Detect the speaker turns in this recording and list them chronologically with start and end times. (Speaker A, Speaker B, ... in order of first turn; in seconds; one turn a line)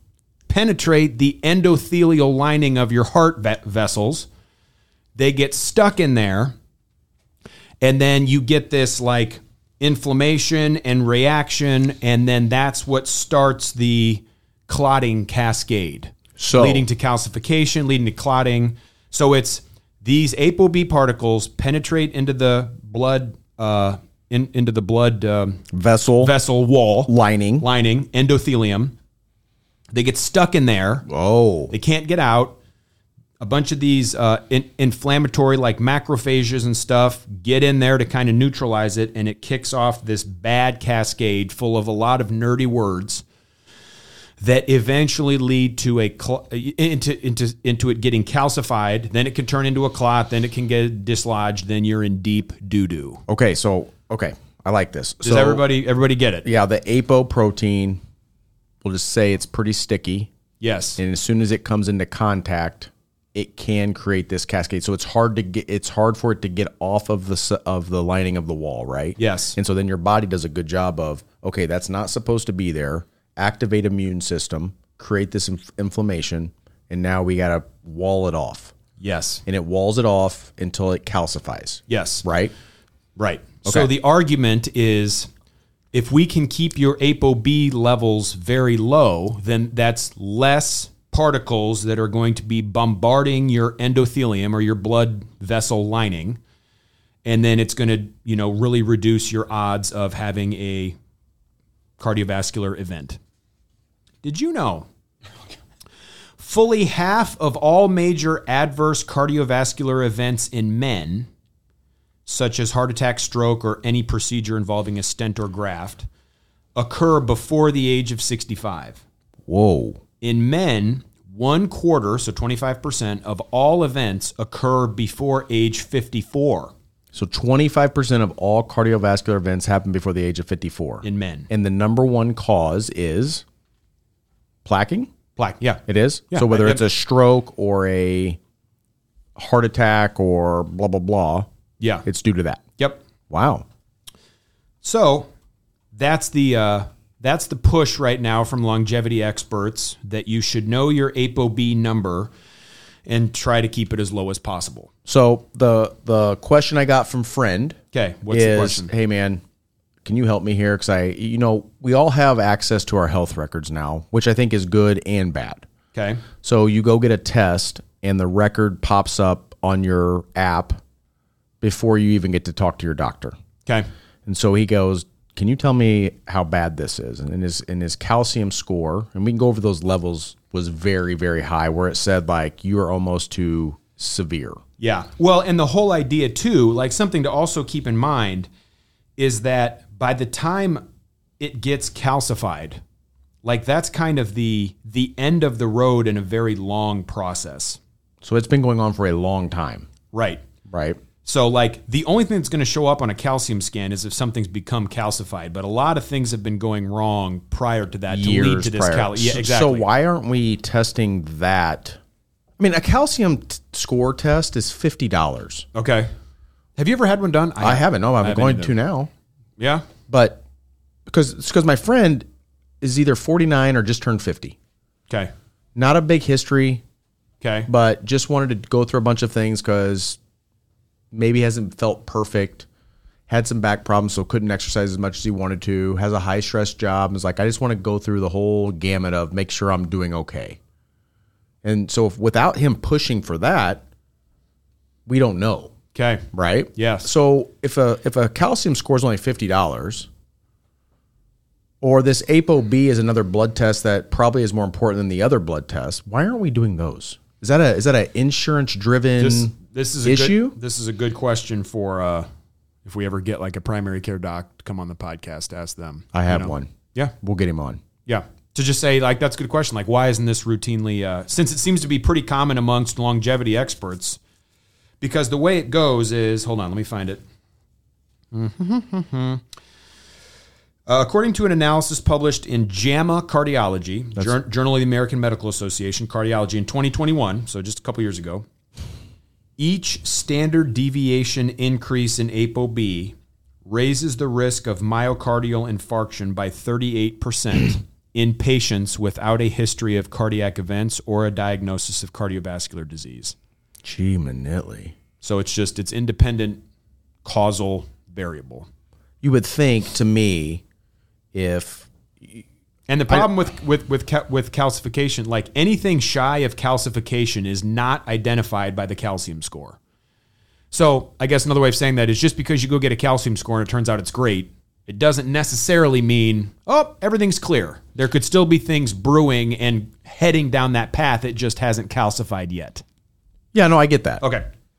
Speaker A: 0.5-4.3
Speaker A: 5.2-6.5
Speaker A: 7.8-25.6
Speaker B: 16.4-16.9
Speaker B: 25.7-26.3
Speaker A: 26.2-29.0
Speaker B: 27.1-27.7
Speaker A: 29.9-31.1
Speaker B: 31.1-31.7
Speaker A: 31.7-32.6
Speaker A: 33.4-43.2
Speaker A: 44.4-53.2
Speaker B: 53.3-55.6
Speaker A: 55.2-56.5
Speaker B: 56.4-58.0
Speaker B: 58.8-60.3
Speaker A: 60.6-61.0
Speaker B: 61.0-78.7
Speaker A: 69.2-69.6
Speaker A: 79.0-79.4
Speaker B: 79.5-82.5
Speaker A: 81.9-82.2
Speaker A: 83.2-85.3
Speaker B: 83.7-83.9
Speaker A: 85.9-96.4
Speaker A: 97.2-101.0
Speaker A: 102.0-103.2
Speaker A: 104.2-104.9
Speaker A: 106.4-111.3
Speaker A: 112.3-116.1
Speaker A: 116.8-119.0
Speaker B: 119.5-120.0
Speaker A: 120.2-126.7
Speaker B: 127.1-133.4
Speaker A: 131.0-131.5
Speaker B: 134.7-135.1
Speaker A: 135.4-136.8
Speaker B: 135.9-138.4
Speaker B: 139.4-141.5
Speaker A: 141.8-142.1
Speaker B: 142.1-142.6
Speaker B: 143.3-143.7
Speaker A: 144.8-145.3
Speaker A: 145.9-152.3
Speaker A: 153.1-154.9
Speaker B: 155.1-157.8
Speaker A: 157.9-158.9
Speaker B: 158.3-159.4
Speaker B: 160.0-165.7
Speaker A: 165.9-166.2
Speaker B: 166.4-170.8
Speaker B: 171.6-173.4
Speaker B: 174.3-184.6
Speaker A: 184.8-188.5
Speaker A: 189.2-190.8
Speaker A: 191.4-192.8
Speaker A: 193.4-197.8
Speaker B: 198.2-199.9
Speaker A: 200.1-200.4
Speaker B: 200.7-201.0
Speaker A: 201.2-209.9
Speaker B: 208.1-212.0
Speaker B: 212.6-215.7
Speaker A: 215.7-216.1
Speaker A: 216.8-218.8
Speaker B: 217.6-219.1
Speaker A: 219.6-219.8
Speaker B: 220.1-220.4
Speaker B: 221.1-222.3
Speaker B: 222.8-224.6
Speaker B: 225.8-226.8
Speaker A: 227.4-227.7
Speaker B: 227.7-230.2
Speaker B: 231.1-232.7
Speaker B: 233.3-240.6
Speaker B: 241.6-243.8
Speaker B: 245.1-245.7
Speaker A: 245.9-247.1
Speaker B: 246.3-250.1
Speaker B: 251.8-260.6
Speaker A: 259.2-262.3
Speaker A: 262.9-267.1
Speaker B: 266.1-267.8
Speaker A: 268.1-274.2
Speaker A: 275.0-277.2
Speaker A: 278.3-279.4
Speaker A: 280.9-288.5
Speaker A: 289.6-303.4
Speaker B: 303.8-304.9
Speaker A: 305.2-306.6
Speaker A: 307.2-308.7
Speaker B: 309.2-310.6
Speaker B: 311.3-312.4
Speaker A: 312.9-319.8
Speaker A: 320.7-332.8
Speaker B: 333.5-334.2
Speaker A: 334.2-334.5